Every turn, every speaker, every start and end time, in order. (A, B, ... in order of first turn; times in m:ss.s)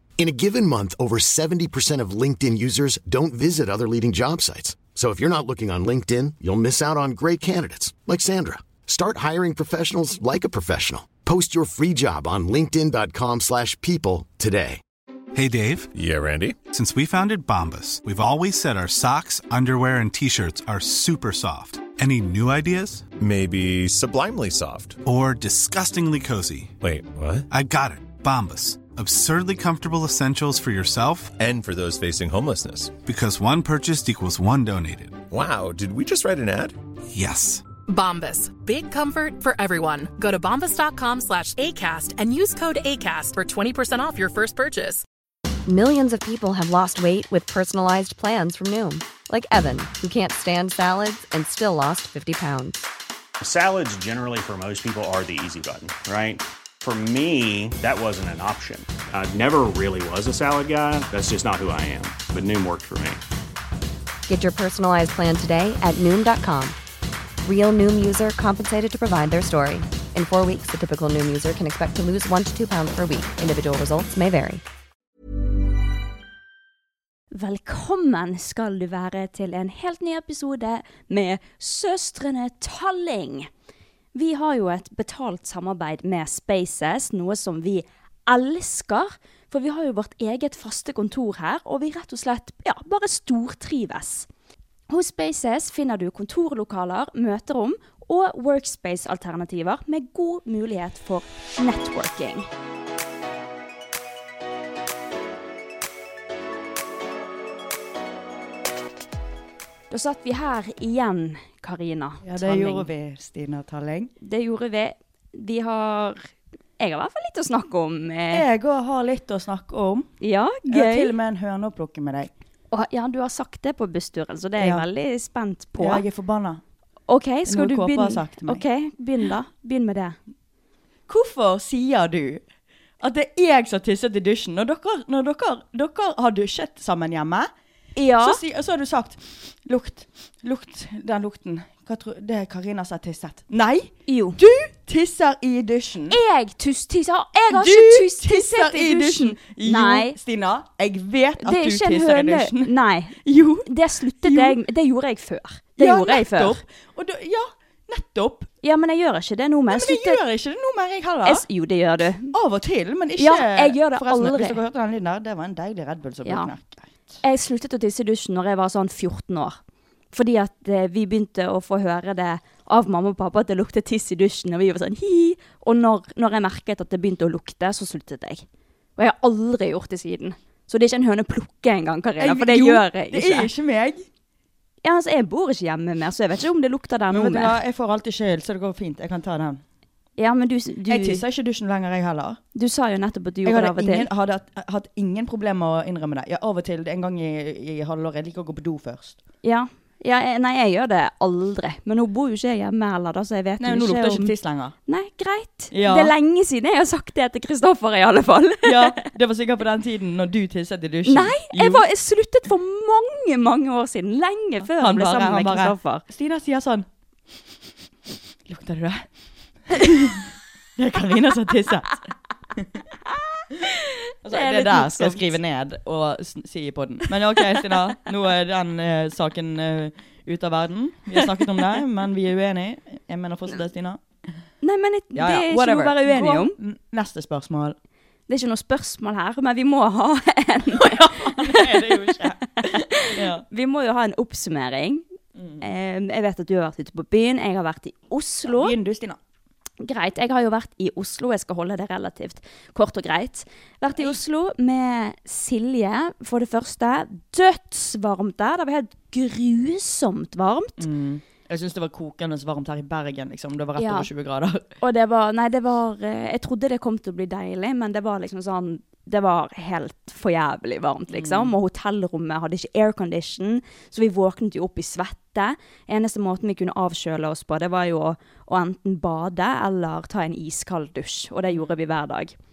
0:00.2-0:14.8 A
0:15.3-0:15.9 B
0:16.0-0:16.6 C
0:16.7-0:23.1 B
0:23.2-0:25.0 C
0:25.0-0:26.8 B
0:26.8-0:27.4 C
0:27.5-0:31.4 B
0:31.4-0:32.9 C
0:33.0-0:35.2 B
0:35.3-0:36.7 C
0:37.1-0:37.7 B
0:37.9-0:45.0 D
0:45.7-0:52.8 E
0:53.4-1:03.2 F
1:04.3-1:06.8 E
1:07.4-1:14.6 E
1:17.3-1:23.5 G
1:24.1-1:34.3 G
1:34.9-1:42.5 G
1:49.9-1:52.9 G
1:52.2-1:54.1 H
1:54.2-1:58.5 G
1:58.3-2:00.1 H
2:00.2-2:01.1 G
2:00.7-2:02.3 H
2:02.7-2:06.0 G
2:04.6-2:04.8 H
2:05.8-2:06.6 H
2:07.1-2:10.2 G
2:07.5-2:08.6 H
2:11.1-2:12.4 H
2:13.0-2:17.5 H
2:18.0-2:18.4 G
2:18.2-2:26.2 H
2:24.1-2:24.4 G
2:26.1-2:30.2 G
2:27.5-2:32.7 H
2:31.4-2:36.6 G
2:33.2-2:33.7 H
2:34.2-2:34.6 H
2:35.8-2:38.5 H
2:38.6-2:40.2 G
2:39.7-2:41.5 H
2:41.2-2:42.4 G
2:42.3-2:47.2 H
2:43.2-2:44.6 G
2:46.2-2:46.5 G
2:47.2-2:49.6 G
2:50.1-2:58.4 G
2:59.0-3:03.5 G
3:02.2-3:04.1 H
3:04.8-3:07.6 G
3:07.1-3:09.6 H
3:10.2-3:11.2 G
3:10.9-3:12.4 H
3:12.6-3:14.1 G
3:13.4-3:19.2 H
3:19.4-3:24.3 G
3:23.6-3:24.8 H
3:24.9-3:29.1 G
3:25.7-3:26.1 H
3:28.6-3:31.9 H
3:31.0-3:36.0 G
3:34.6-3:36.9 H
3:38.5-3:39.1 H
3:39.7-3:42.7 H
3:43.7-3:45.4 G
3:44.2-3:54.0 H
3:51.2-3:51.6 G
3:54.6-3:56.6 G
3:55.2-3:57.8 H
3:58.3-4:01.9 G
4:00.7-4:03.4 H
4:02.6-4:05.0 G
4:05.4-4:05.6 H
4:05.6-4:08.8 G
4:08.5-4:09.2 H
4:09.8-4:20.8 G
4:20.8-4:24.7 H
4:23.8-4:24.1 G
4:24.8-4:42.3 G
4:31.1-4:31.5 H